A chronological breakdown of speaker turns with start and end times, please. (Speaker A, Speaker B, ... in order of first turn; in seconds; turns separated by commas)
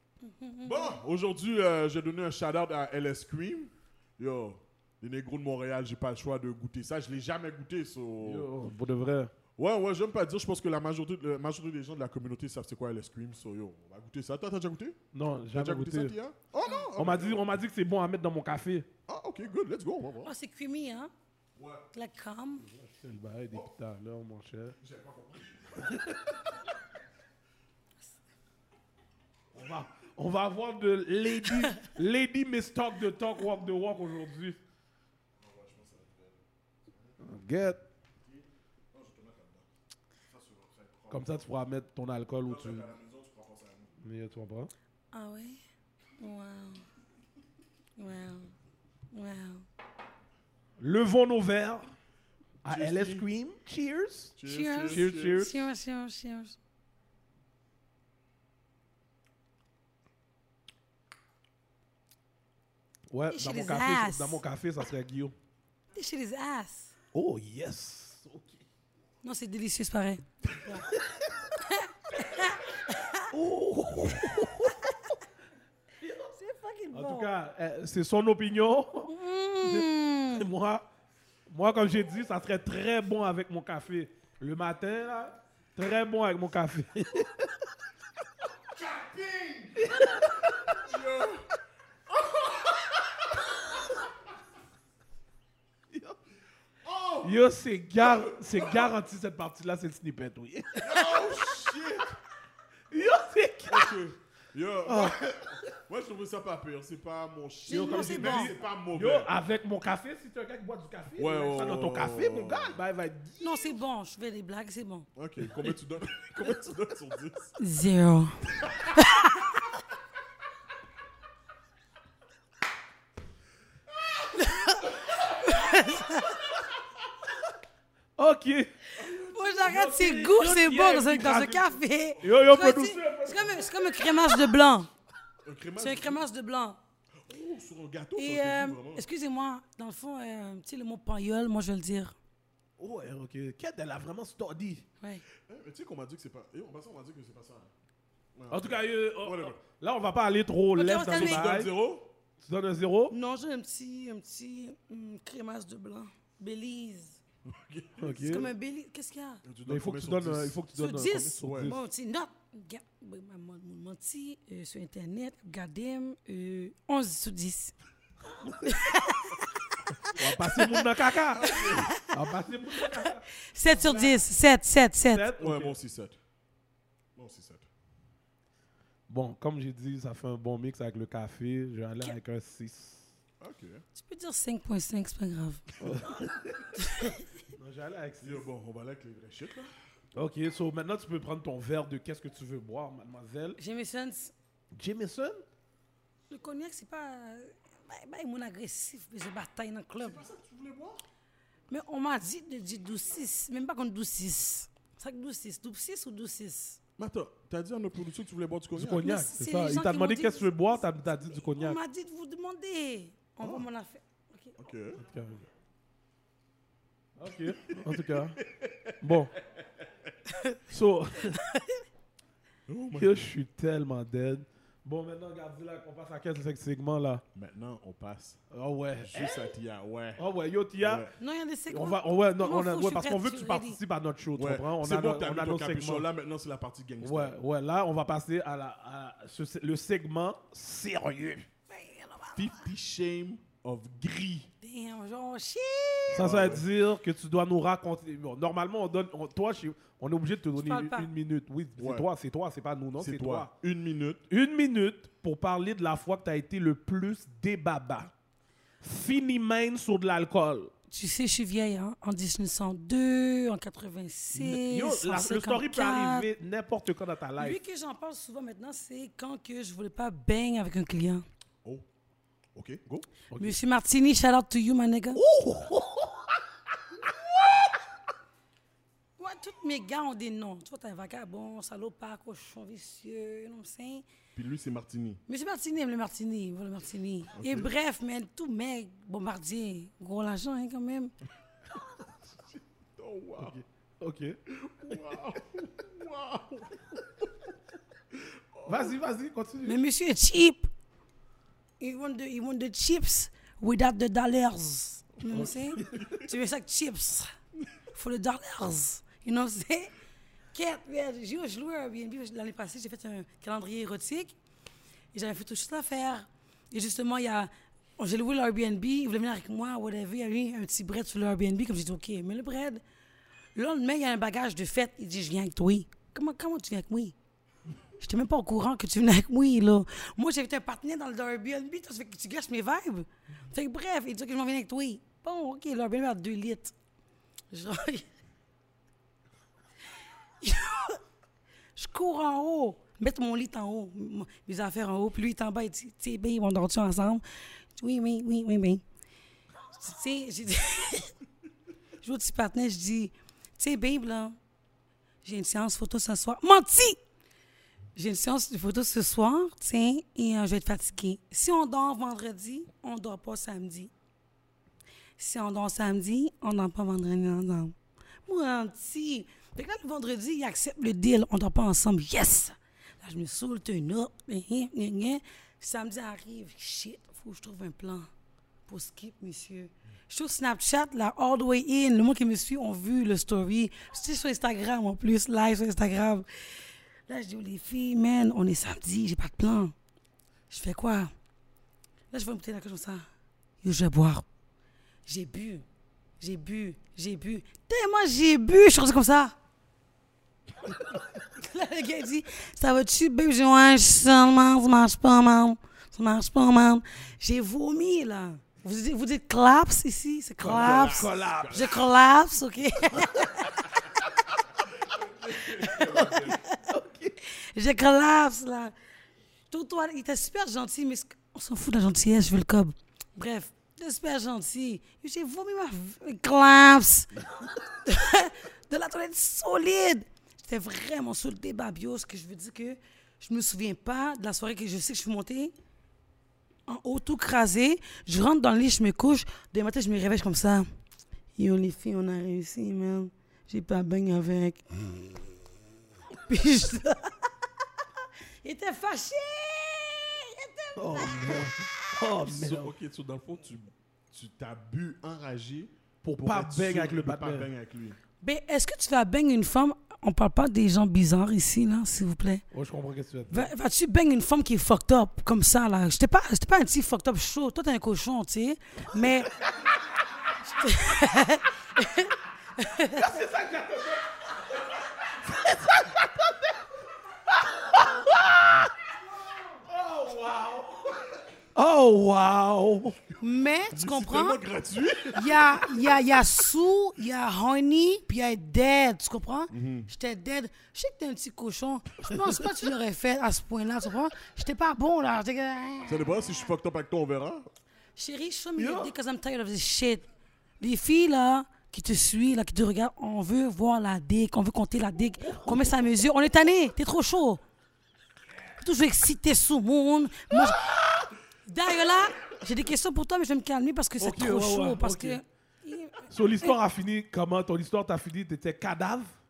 Speaker A: 0.2-1.0, Speaker B: 0.6-8.5, Speaker C: 8.2-9.3, Speaker B: 9.6-15.0, Speaker C: 15.1-16.1, Speaker B: 15.5-17.5, Speaker C: 16.9-18.9, Speaker B: 19.1-20.3, Speaker A: 20.2-21.1, Speaker B: 21.6-21.9, Speaker A: 21.9-22.7, Speaker C: 22.6-24.8, Speaker B: 24.8-26.2, Speaker C: 25.9-26.1, Speaker C: 29.5-34.6, Speaker B: 35.4-37.2, Speaker C: 37.2-37.8, Speaker B: 38.2-39.6, Speaker B: 40.2-41.5, Speaker C: 41.1-42.9, Speaker B: 42.4-43.9, Speaker C: 44.0-44.7, Speaker A: 45.1-45.6, Speaker A: 46.2-46.8, Speaker A: 48.0-48.5, Speaker A: 49.1-49.6, Speaker C: 50.8-51.9, Speaker C: 52.6-54.3, Speaker B: 52.6-53.2, Speaker B: 54.4-55.5, Speaker A: 54.4-56.6, Speaker C: 54.9-55.6, Speaker C: 63.1-65.3, Speaker A: 63.3-64.4, Speaker A: 65.9-66.9, Speaker C: 67.1-68.6, Speaker A: 69.2-70.9, Speaker C: 70.8-71.3, Speaker A: 71.6-73.3, Speaker C: 73.3-74.9, Speaker C: 76.0-76.3, Speaker A: 76.3-77.3, Speaker C: 76.9-80.9, Speaker A: 79.1-80.5, Speaker C: 81.5-87.5, Speaker B: 88.8-89.9, Speaker C: 89.8-90.8, Speaker B: 90.7-91.5, Speaker B: 92.1-93.2, Speaker C: 95.9-96.2, Speaker B: 96.8-97.4, Speaker C: 97.2-101.5, Speaker B: 98.0-98.9, Speaker B: 100.8-102.2, Speaker C: 102.9-104.0, Speaker B: 103.7-109.3, Speaker C: 104.8-105.7, Speaker A: 107.7-108.5, Speaker C: 107.7-113.7, Speaker B: 111.2-112.8, Speaker A: 113.4-115.1, Speaker B: 115.2-117.5, Speaker A: 117.6-119.5, Speaker A: 124.3-126.4, Speaker C: 128.2-128.8, Speaker A: 129.0-134.9, Speaker B: 129.0-129.7, Speaker C: 129.6-134.4, Speaker B: 132.2-132.6, Speaker B: 135.4-136.2, Speaker A: 135.8-136.8, Speaker B: 137.2-139.1, Speaker A: 138.2-142.2, Speaker C: 142.8-144.8, Speaker B: 145.5-147.7, Speaker B: 148.3-149.6, Speaker C: 148.5-151.7, Speaker A: 150.7-151.4, Speaker B: 151.0-152.1, Speaker C: 152.4-153.1, Speaker A: 153.1-157.2, Speaker B: 157.4-158.5, Speaker C: 158.0-158.5, Speaker A: 158.2-159.4, Speaker B: 159.4-161.8, Speaker C: 159.6-161.8, Speaker A: 160.7-167.7, Speaker A: 168.6-170.8, Speaker C: 170.1-174.3, Speaker B: 171.3-171.9, Speaker A: 171.4-172.1, Speaker A: 172.8-175.2, Speaker C: 175.1-175.8, Speaker B: 175.4-176.2, Speaker B: 177.2-177.7, Speaker C: 179.1-183.1, Speaker B: 183.4-183.8, Speaker A: 184.0-185.8, Speaker C: 185.8-186.7, Speaker A: 186.7-187.4, Speaker C: 187.5-188.4, Speaker B: 188.2-189.7, Speaker C: 190.1-193.6, Speaker A: 193.6-194.3, Speaker C: 194.7-195.4, Speaker A: 196.3-200.2, Speaker B: 200.0-201.0, Speaker A: 201.7-206.8, Speaker B: 207.0-209.1, Speaker C: 208.7-211.8, Speaker A: 209.0-214.6, Speaker B: 213.4-213.6, Speaker B: 214.6-215.0, Speaker C: 215.0-215.4, Speaker C: 217.2-218.4, Speaker B: 217.8-219.6, Speaker C: 219.0-219.3, Speaker A: 220.3-220.6, Speaker C: 220.7-221.4, Speaker A: 221.3-221.8, Speaker B: 222.7-223.2, Speaker C: 222.9-227.2, Speaker B: 227.3-228.4, Speaker C: 228.5-229.5, Speaker B: 229.0-230.2, Speaker C: 230.2-231.1, Speaker B: 230.8-231.1, Speaker A: 231.2-233.8, Speaker C: 231.7-236.1, Speaker B: 234.3-237.3, Speaker C: 237.0-241.5, Speaker A: 241.7-242.6, Speaker B: 242.3-244.5, Speaker A: 244.6-246.3, Speaker B: 246.1-246.7, Speaker C: 246.2-253.5, Speaker A: 250.6-251.1, Speaker B: 251.8-252.1, Speaker B: 253.0-254.2, Speaker C: 254.3-258.1, Speaker C: 258.8-260.7, Speaker A: 260.9-266.3, Speaker C: 264.3-267.6, Speaker A: 267.4-271.2, Speaker B: 272.5-273.1, Speaker C: 273.3-273.6, Speaker A: 273.3-275.2, Speaker C: 275.1-276.2, Speaker A: 279.2-284.0, Speaker B: 284.3-285.2, Speaker A: 285.3-291.1, Speaker B: 287.3-287.7, Speaker B: 292.3-293.6, Speaker C: 293.4-294.4, Speaker B: 294.5-297.3, Speaker B: 298.1-298.9, Speaker C: 298.6-299.8, Speaker A: 299.6-300.7, Speaker A: 301.8-307.3, Speaker C: 305.3-306.0, Speaker A: 307.9-309.9, Speaker A: 310.5-314.4, Speaker A: 315.1-322.8, Speaker A: 323.5-327.1, Speaker A: 328.0-336.7, Speaker A: 337.5-338.1, Speaker A: 340.4-341.0, Speaker A: 341.7-347.2, Speaker A: 347.8-348.8, Speaker A: 349.7-351.1, Speaker A: 352.0-354.4, Speaker A: 355.2-357.0, Speaker A: 357.9-363.9, Speaker A: 365.2-367.7, Speaker A: 368.2-378.1, Speaker A: 378.7-389.7, Speaker A: 390.5-391.1, Speaker A: 392.1-393.1, Speaker A: 393.6-394.2, Speaker A: 395.1-395.6, Speaker A: 396.2-399.4, Speaker A: 400.7-413.5, Speaker C: 410.4-411.8, Speaker B: 410.4-411.8, Speaker B: 415.2-416.4, Speaker A: 415.4-416.6, Speaker C: 415.8-417.1, Speaker A: 417.2-418.7, Speaker A: 419.5-435.5, Speaker A: 436.7-440.7, Speaker A: 441.4-445.0, Speaker A: 446.3-447.3, Speaker A: 448.4-451.9, Speaker C: 450.8-452.7, Speaker B: 452.2-458.0, Speaker C: 456.0-457.5, Speaker A: 458.2-462.4, Speaker C: 462.5-463.5, Speaker A: 463.3-469.3, Speaker C: 469.0-469.7, Speaker A: 470.4-473.2, Speaker C: 472.9-476.6, Speaker C: 477.3-478.7, Speaker C: 479.6-483.0, Speaker A: 483.2-484.4, Speaker B: 483.7-485.9, Speaker A: 485.1-496.4, Speaker B: 489.5-489.9, Speaker B: 495.9-497.5, Speaker A: 497.9-500.1, Speaker C: 498.6-498.9, Speaker A: 500.6-507.4, Speaker C: 505.2-505.8, Speaker A: 508.6-510.8, Speaker B: 510.8-511.0, Speaker A: 511.4-516.6, Speaker C: 514.0-515.2, Speaker C: 516.1-519.1